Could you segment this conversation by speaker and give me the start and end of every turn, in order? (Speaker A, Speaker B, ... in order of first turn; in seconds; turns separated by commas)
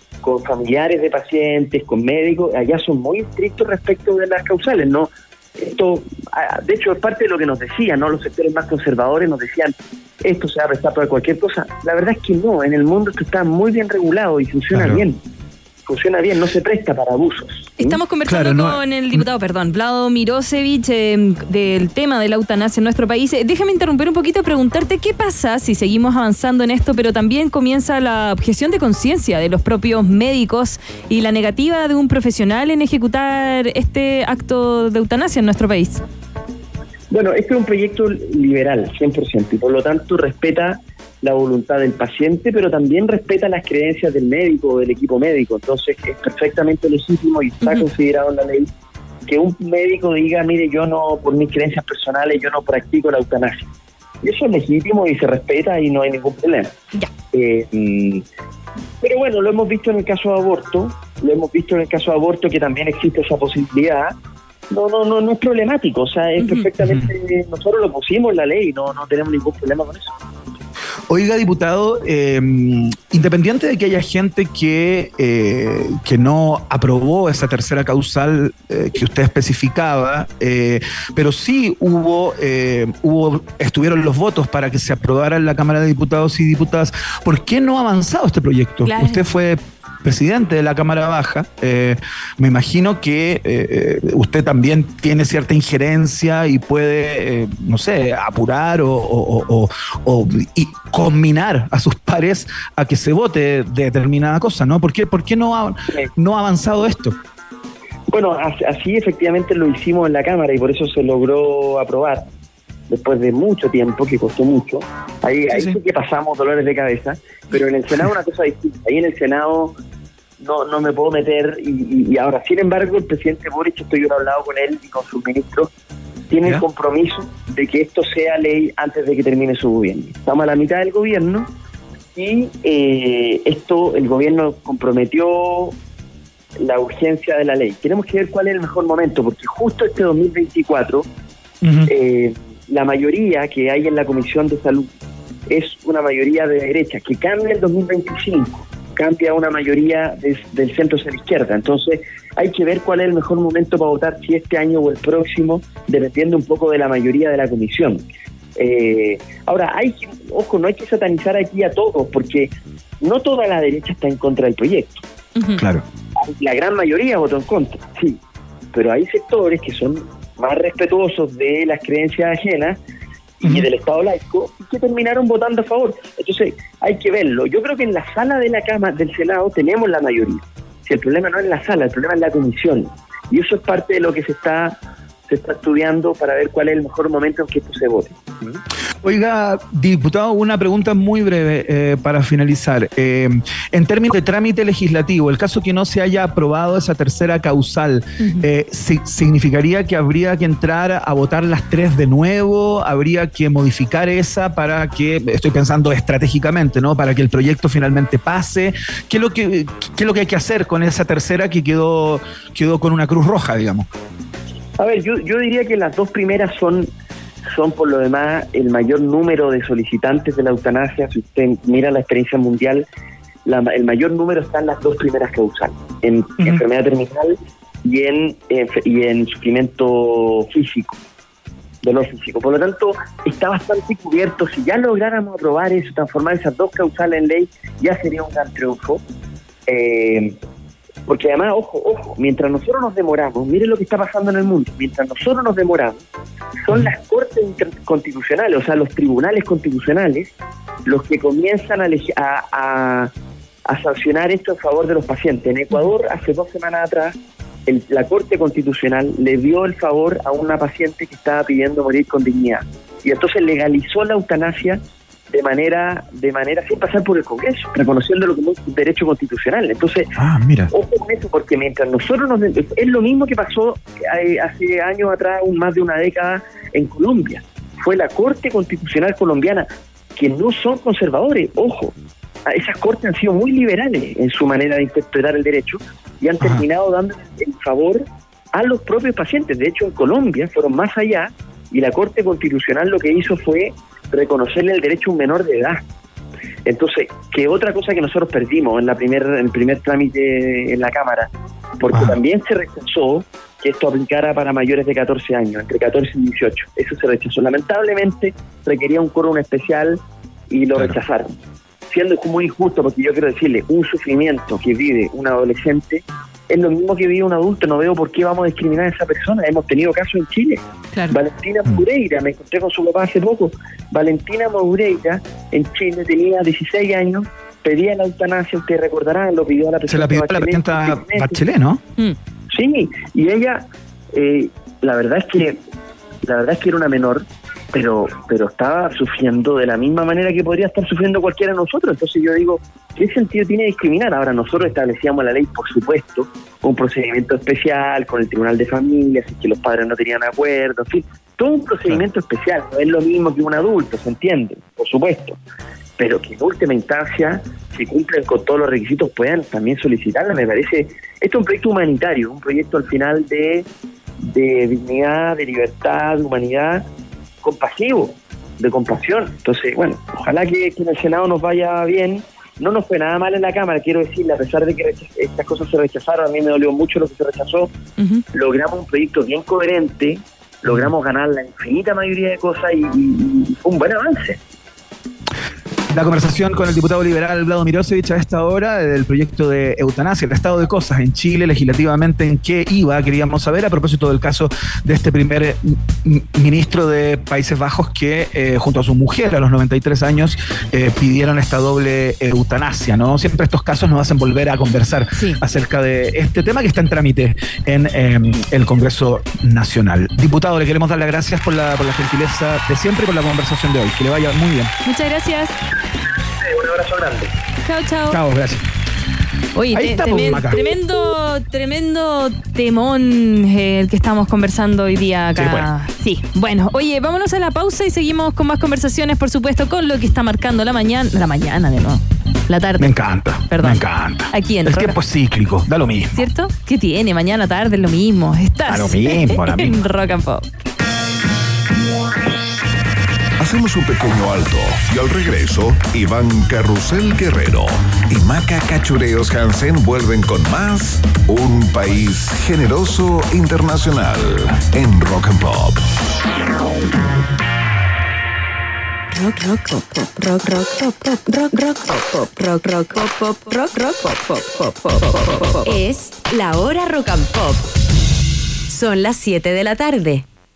Speaker A: 0.2-15.2, Speaker B: 14.7-15.0, Speaker A: 15.9-18.0, Speaker C: 17.8-36.0, Speaker B: 18.2-19.2, Speaker A: 37.1-48.7, Speaker A: 49.3-53.7, Speaker A: 54.2-56.8, Speaker A: 57.3-58.2, Speaker A: 59.0-64.1, Speaker A: 64.7-70.1, Speaker C: 66.4-66.7, Speaker B: 71.1-107.2, Speaker C: 88.8-89.2, Speaker A: 108.1-112.2, Speaker A: 112.9-119.7, Speaker A: 120.4-125.7, Speaker A: 126.3-131.5, Speaker A: 132.1-135.7, Speaker A: 136.6-141.1, Speaker B: 141.6-141.9, Speaker A: 141.9-144.9, Speaker A: 145.5-158.0, Speaker A: 158.6-165.0, Speaker A: 166.2-168.2, Speaker A: 168.7-172.8, Speaker A: 173.4-184.8, Speaker A: 185.3-188.6, Speaker B: 189.0-213.9, Speaker C: 198.2-198.4, Speaker A: 214.8-216.9, Speaker A: 217.5-222.9, Speaker A: 223.4-231.0, Speaker A: 231.8-239.0, Speaker A: 239.7-240.4, Speaker A: 241.1-246.0, Speaker A: 246.6-250.3, Speaker A: 250.8-253.1, Speaker A: 253.7-257.1, Speaker A: 257.7-270.1, Speaker B: 270.2-270.7, Speaker A: 270.7-281.9, Speaker A: 282.4-288.0, Speaker A: 288.5-295.8, Speaker A: 296.6-311.4, Speaker A: 311.9-331.5, Speaker B: 329.9-331.8, Speaker A: 332.5-335.6, Speaker A: 336.2-355.4, Speaker A: 356.0-363.7, Speaker A: 364.2-366.8, Speaker A: 367.4-377.7, Speaker C: 378.0-378.2, Speaker A: 378.3-384.4, Speaker B: 385.9-414.7, Speaker C: 405.1-405.4, Speaker C: 414.8-415.5, Speaker A: 416.4-417.3, Speaker C: 417.6-418.2, Speaker B: 418.1-418.7, Speaker C: 419.5-432.9, Speaker B: 419.7-420.7, Speaker B: 425.3-425.7, Speaker B: 432.8-436.1, Speaker C: 433.5-435.0, Speaker C: 436.1-440.4, Speaker B: 438.7-439.8, Speaker D: 443.4-455.8, Speaker E: 459.1-467.7, Speaker E: 468.7-470.2